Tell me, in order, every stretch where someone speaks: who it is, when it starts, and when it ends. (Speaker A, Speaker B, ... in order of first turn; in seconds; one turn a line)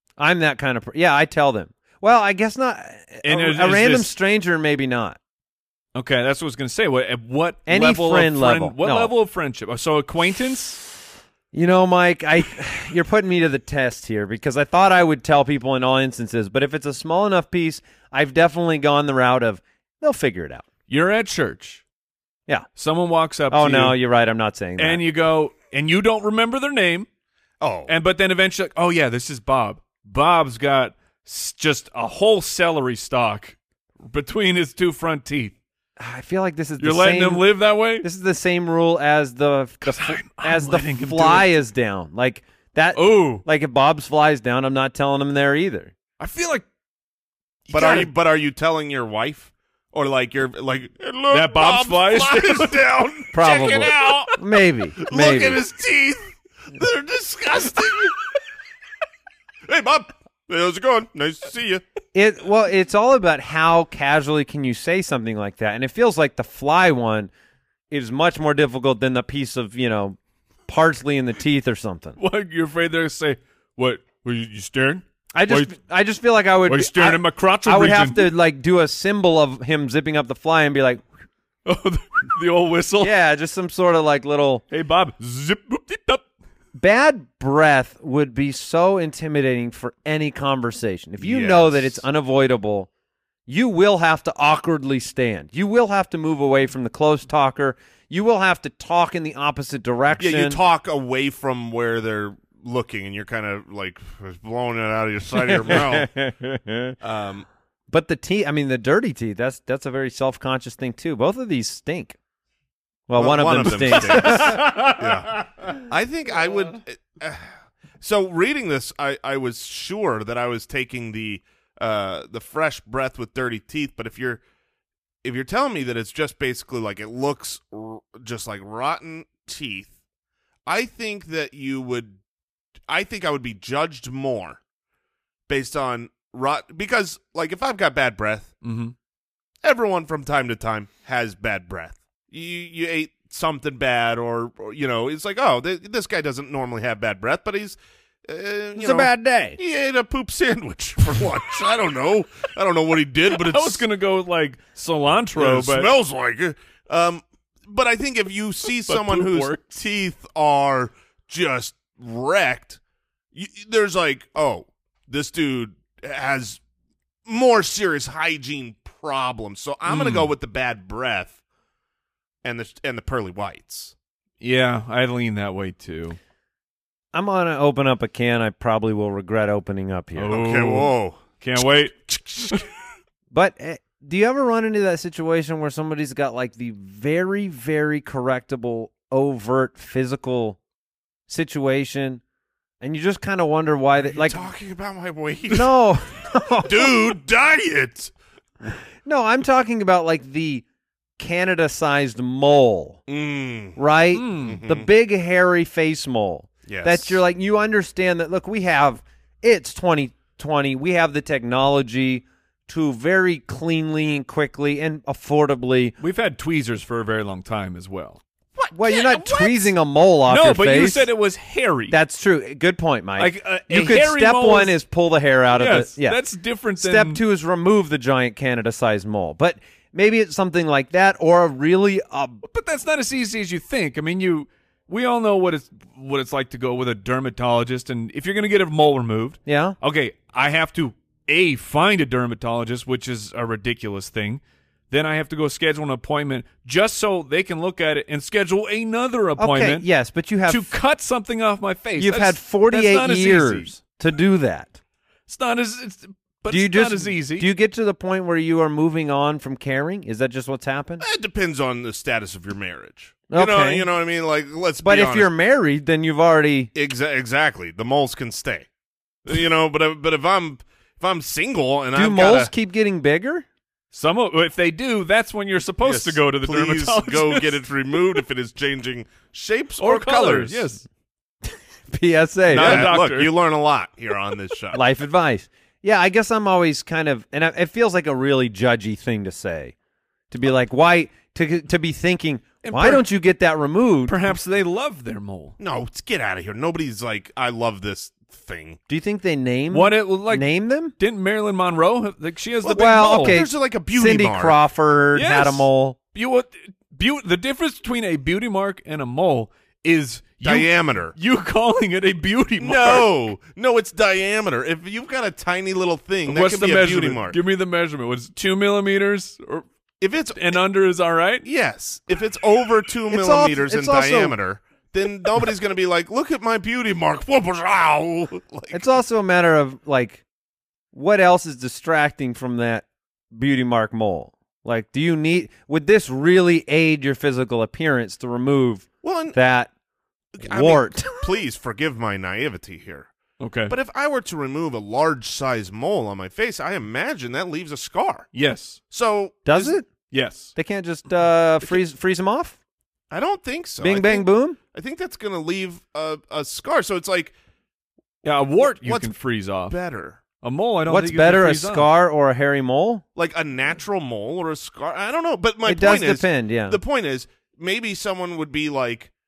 Speaker A: 0.2-5.2
Speaker B: 3.2-4.2
Speaker B: 6.0-10.8
Speaker A: 7.7-9.1
Speaker A: 11.5-20.7
Speaker B: 20.9-21.8
Speaker B: 22.8-24.0
Speaker A: 23.5-25.0
Speaker B: 24.8-27.1
Speaker C: 27.6-27.9
Speaker B: 27.9-35.5
Speaker A: 36.0-45.9
Speaker B: 36.8-38.1
Speaker B: 39.8-41.5
Speaker B: 42.9-43.5
Speaker B: 46.2-46.7
Speaker B: 47.7-48.1
Speaker C: 47.7-54.3
Speaker B: 51.3-52.8
Speaker A: 53.3-55.6
Speaker C: 55.0-58.2
Speaker C: 59.7-61.8
Speaker A: 62.1-67.3
Speaker A: 67.9-72.2
Speaker B: 72.2-75.8
Speaker A: 75.3-81.0
Speaker B: 76.7-78.3
Speaker B: 81.7-83.1
Speaker A: 83.0-84.6
Speaker B: 84.7-86.2
Speaker A: 86.8-92.9
Speaker C: 91.2-92.0
Speaker A: 93.5-100.6
Speaker C: 100.2-106.1
Speaker A: 105.3-107.0
Speaker C: 107.0-107.5
Speaker A: 107.9-112.2
Speaker A: 113.1-114.7
Speaker C: 113.2-117.5
Speaker B: 114.2-115.0
Speaker C: 118.0-124.4
Speaker C: 125.2-129.9
Speaker C: 130.7-132.2
Speaker C: 132.9-134.6
Speaker C: 135.5-138.5
Speaker B: 138.6-138.9
Speaker C: 139.6-153.9
Speaker A: 148.8-149.6
Speaker B: 153.3-155.9
Speaker C: 155.4-162.8
Speaker B: 158.9-159.6
Speaker C: 163.3-166.6
Speaker C: 167.3-171.4
Speaker B: 169.9-170.3
Speaker C: 172.4-173.9
Speaker B: 174.4-176.2
Speaker A: 177.1-180.4
Speaker B: 180.2-181.9
Speaker C: 180.3-181.4
Speaker C: 181.9-182.7
Speaker A: 183.3-190.6
Speaker A: 191.3-192.2
Speaker A: 192.8-194.4
Speaker C: 194.1-195.7
Speaker A: 195.5-197.1
Speaker C: 196.6-198.1
Speaker A: 199.0-200.6
Speaker A: 201.2-203.0
Speaker C: 203.1-203.8
Speaker A: 203.8-216.0
Speaker B: 204.1-204.6
Speaker C: 204.4-204.9
Speaker C: 206.7-207.2
Speaker B: 216.0-218.2
Speaker C: 218.6-219.7
Speaker A: 218.7-221.1
Speaker B: 220.3-222.0
Speaker A: 221.9-226.2
Speaker B: 223.2-224.8
Speaker B: 225.5-227.2
Speaker A: 226.8-232.4
Speaker B: 232.4-249.9
Speaker A: 239.5-239.8
Speaker A: 249.4-250.7
Speaker B: 250.5-253.7
Speaker A: 252.0-254.8
Speaker B: 255.3-257.5
Speaker A: 256.5-261.0
Speaker C: 261.0-265.3
Speaker A: 263.3-263.9
Speaker A: 264.8-266.7
Speaker C: 266.8-268.7
Speaker C: 269.3-272.5
Speaker A: 271.9-273.5
Speaker B: 273.9-277.6
Speaker C: 275.8-280.7
Speaker B: 279.8-280.9
Speaker A: 281.9-282.9
Speaker B: 282.5-283.3
Speaker C: 282.5-284.8
Speaker A: 284.7-289.7
Speaker A: 290.3-294.3
Speaker B: 292.6-293.1
Speaker B: 294.1-295.6
Speaker C: 295.6-298.8
Speaker A: 298.9-300.9
Speaker B: 299.7-303.4
Speaker A: 302.6-306.0
Speaker C: 302.7-304.6
Speaker B: 305.1-313.1
Speaker C: 310.4-311.1
Speaker C: 312.6-317.4
Speaker B: 316.3-319.7
Speaker C: 320.0-320.6
Speaker B: 320.4-321.4
Speaker C: 321.4-328.9
Speaker A: 323.1-324.4
Speaker A: 328.7-330.2
Speaker A: 330.9-339.7
Speaker C: 339.0-339.4
Speaker C: 340.4-343.1
Speaker A: 340.4-341.2
Speaker B: 343.4-343.8
Speaker C: 343.7-348.3
Speaker B: 348.3-348.8
Speaker C: 348.9-349.8
Speaker A: 349.5-349.9
Speaker B: 350.1-350.5
Speaker A: 350.6-352.6
Speaker C: 353.1-357.3
Speaker A: 353.8-354.6
Speaker B: 358.2-359.8
Speaker C: 358.6-359.2
Speaker C: 359.7-360.2
Speaker B: 360.4-361.9
Speaker A: 360.9-363.0
Speaker C: 363.2-369.1
Speaker A: 365.6-366.8